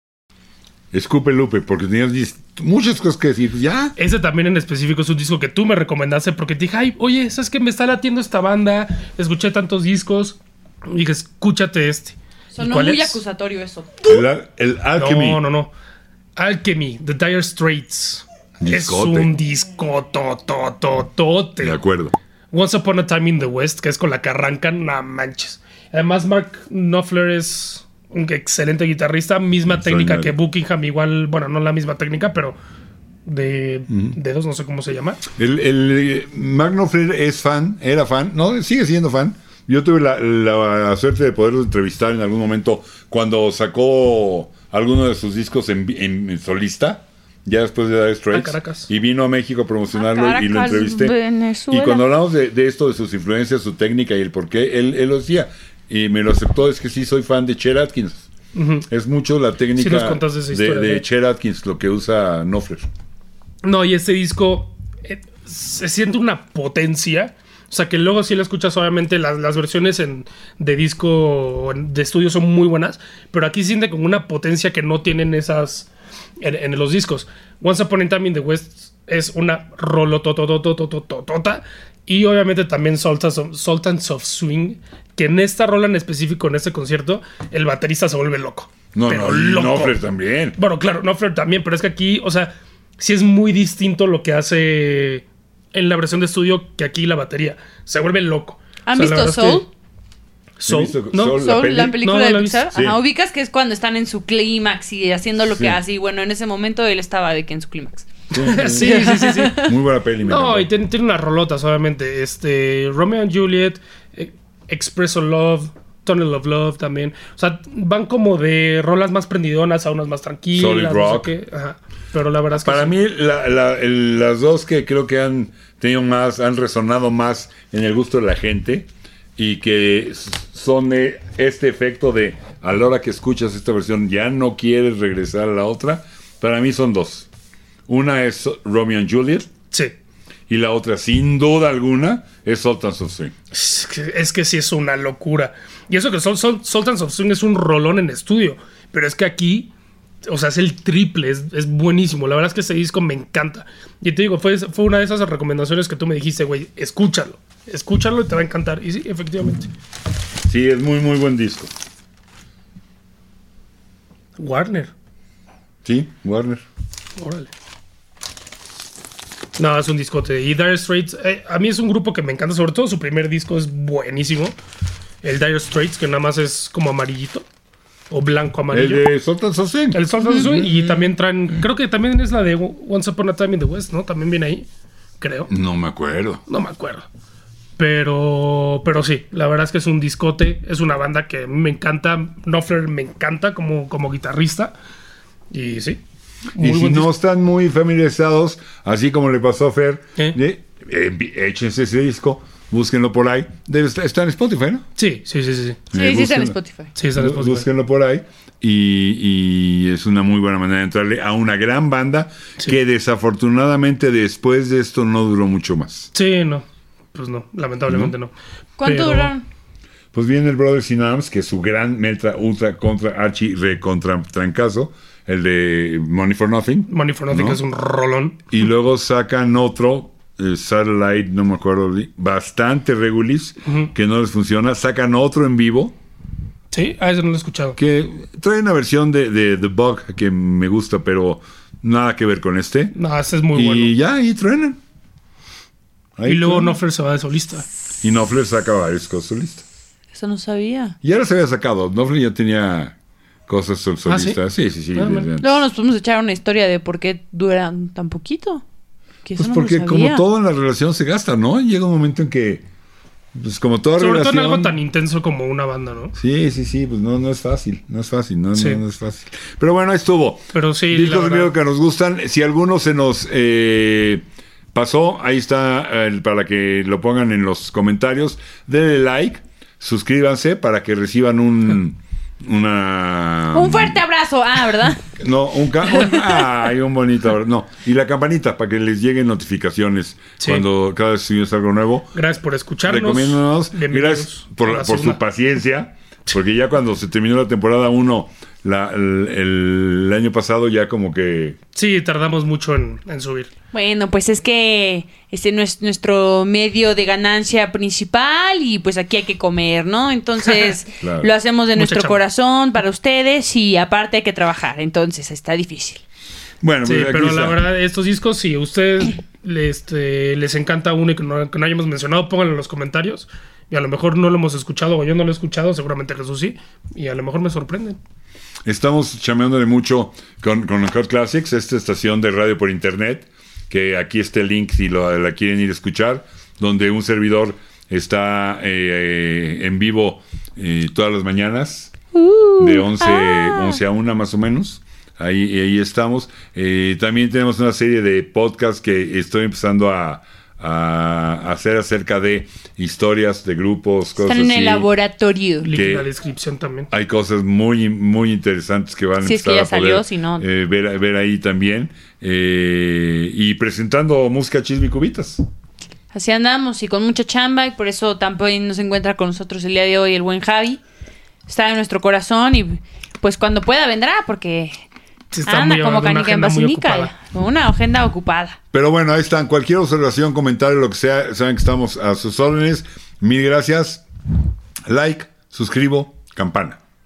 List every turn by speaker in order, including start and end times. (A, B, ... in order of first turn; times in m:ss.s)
0:00.9-0:03.9 A
0:04.0-0:13.2 B
0:12.5-0:14.0 C
0:14.1-0:15.4 A
0:15.0-0:15.7 B
0:16.4-0:21.8 B
0:18.6-0:19.3 A
0:21.6-0:22.1 A
0:22.5-0:32.6 B
0:29.7-0:30.3 A
0:33.2-0:35.2 B
0:33.9-0:34.1 A
0:35.3-0:51.1 A
0:48.3-0:48.9 B
0:49.9-0:52.0 C
0:51.7-0:58.3 A
0:58.5-0:58.9 B
0:58.9-1:02.9 A
0:59.8-1:01.0 B
1:03.6-1:30.0 B
1:28.9-1:30.6 A
1:30.6-1:39.6 B
1:38.8-1:39.7 C
1:40.6-1:42.7 B
1:40.6-1:42.0 A
1:41.4-1:49.6 C
1:45.5-1:45.8 A
1:48.3-1:50.7 A
1:48.4-1:49.7 B
1:50.2-2:02.9 B
2:00.5-2:01.3 A
2:02.6-2:17.3 A
2:17.9-2:19.5 A
2:20.5-2:23.3 A
2:23.5-2:29.7 B
2:30.2-2:39.7 B
2:40.5-2:41.7 A
2:44.4-2:44.9 B
2:45.8-2:46.6 A
2:47.2-2:47.5 B
2:49.6-2:54.6 B
2:55.2-2:57.4 B
2:58.1-2:59.1 B
2:58.7-3:01.1 A
2:59.9-3:04.7 B
3:05.2-3:05.5 B
3:05.5-3:06.4 A
3:06.5-3:07.0 B
3:07.8-3:14.7 B
3:15.5-3:16.0 B
3:16.6-3:17.1 B
3:16.6-3:24.8 A
3:25.0-3:25.8 B
3:25.9-3:26.5 A
3:25.9-3:26.9 C
3:27.0-3:27.6 B
3:27.1-3:36.1 A
3:36.1-3:38.3 B
3:37.9-3:38.1 A
3:38.8-3:39.4 C
3:38.8-3:39.3 B
3:40.1-3:47.6 A
3:46.9-3:48.4 B
3:48.5-3:55.9 A
3:56.7-3:57.8 B
3:57.8-4:02.9 A
4:02.9-4:03.9 B
4:03.5-4:04.8 A
4:06.2-4:06.7 A
4:06.3-4:07.6 B
4:08.0-4:09.6 A
4:10.1-4:11.0 C
4:11.0-4:13.0 A
4:13.5-4:15.6 A
4:14.1-4:14.4 B
4:14.9-4:15.3 B
4:15.4-4:18.6 C
4:19.2-4:20.2 C
4:19.4-4:22.6 A
4:23.3-4:24.7 A
4:24.0-4:26.1 B
4:26.1-4:44.0 A
4:28.6-4:28.8 B
4:30.5-4:31.5 B
4:43.5-4:45.1 C
4:45.2-4:52.1 A
4:45.9-4:46.4 C
4:52.1-4:55.2 B
4:52.8-5:01.6 A
5:01.7-5:03.5 B
5:03.7-5:16.0 C
5:11.0-5:11.3 A
5:11.8-5:12.2 B
5:16.6-5:17.6 A
5:16.8-5:28.0 B
5:28.6-5:41.9 A
5:42.1-5:43.8 C
5:42.6-5:54.9 A
5:54.2-5:55.7 C
5:55.6-5:56.9 B
5:55.7-5:56.1 A
5:56.9-6:05.4 A
5:59.2-6:00.4 C
6:06.1-6:10.8 C
6:11.5-6:14.8 C
6:15.3-6:17.1 B
6:15.4-6:18.6 C
6:18.7-6:24.0 A
6:24.9-6:26.8 A